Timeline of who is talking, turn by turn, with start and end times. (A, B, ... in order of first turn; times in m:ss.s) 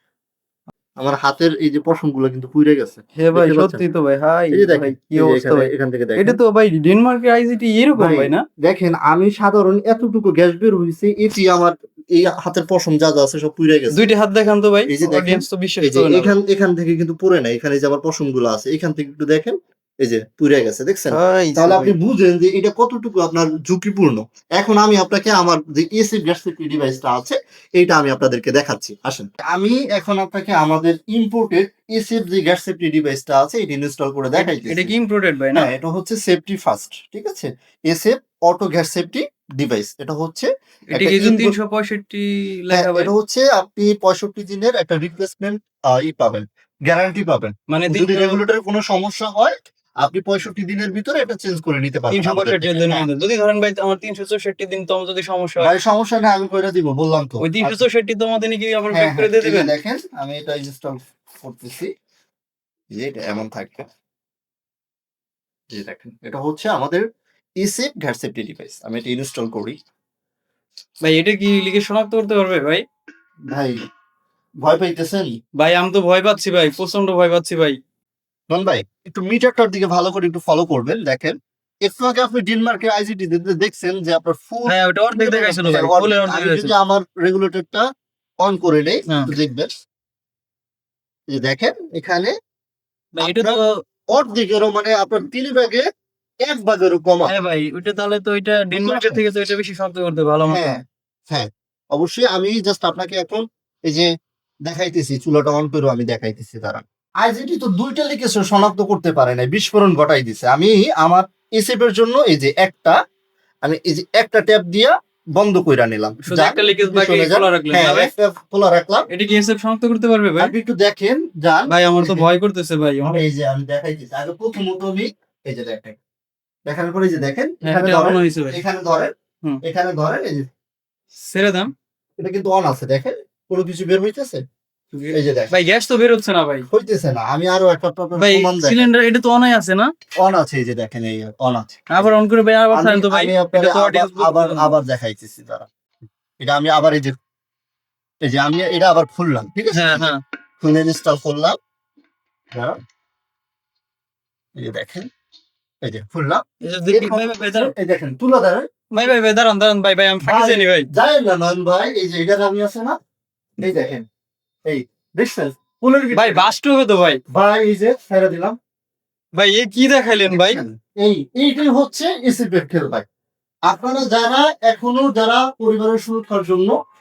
0:01.0-0:03.8 A
0:03.2-0:08.4 B
0:04.5-0:06.4 A
0:08.0-0:14.0 A
0:13.9-0:16.3 B
0:14.9-0:34.9 A
0:21.1-0:21.9 B
0:34.4-0:35.7 B
0:35.5-0:41.6 A
0:40.9-0:43.1 B
0:42.7-0:53.1 A
0:47.7-0:48.4 B
0:52.1-0:55.7 B
0:55.6-0:57.8 A
0:57.4-0:59.7 B
0:58.9-1:01.9 A
1:03.0-1:03.8 A
1:05.7-1:07.0 A
1:07.6-1:09.8 A
1:11.0-1:12.8 B
1:13.5-1:13.8 A
1:14.6-1:15.3 A
1:15.6-1:17.8 B
1:18.5-1:27.8 A
1:24.6-1:26.7 B
1:28.4-1:29.7 A
1:31.3-1:32.3 A
1:33.2-1:33.8 B
1:33.2-1:33.6 A
1:34.1-1:35.8 A
1:36.4-1:37.3 A
1:37.2-1:40.6 B
1:38.7-1:39.2 A
1:40.5-1:44.1 A
1:44.7-1:52.9 A
1:53.6-1:59.0 A
1:56.2-1:58.1 B
1:59.1-2:00.5 B
2:00.4-2:02.3 A
2:01.7-2:03.2 B
2:03.0-2:06.0 A
2:06.7-2:09.1 A
2:07.6-2:08.6 B
2:09.6-2:10.5 A
2:11.2-2:11.7 B
2:12.2-2:14.4 A
2:14.9-2:16.6 B
2:15.1-2:15.5 A
2:16.7-2:18.9 A
2:18.2-2:19.9 B
2:20.2-2:22.1 A
2:21.9-2:24.7 B
2:22.7-2:25.7 A
2:26.4-2:27.2 A
2:28.2-2:30.1 A
2:29.7-2:30.2 B
2:30.6-2:31.6 A
2:34.6-2:35.1 A
2:35.8-2:38.7 A
2:36.6-2:37.7 B
2:38.9-2:40.9 B
2:40.2-2:43.0 A
2:43.6-2:44.0 A
2:44.7-2:46.4 A
2:46.1-2:47.2 B
2:47.3-2:48.6 A
2:49.4-2:50.6 B
2:50.3-2:53.0 A
2:53.7-2:56.7 A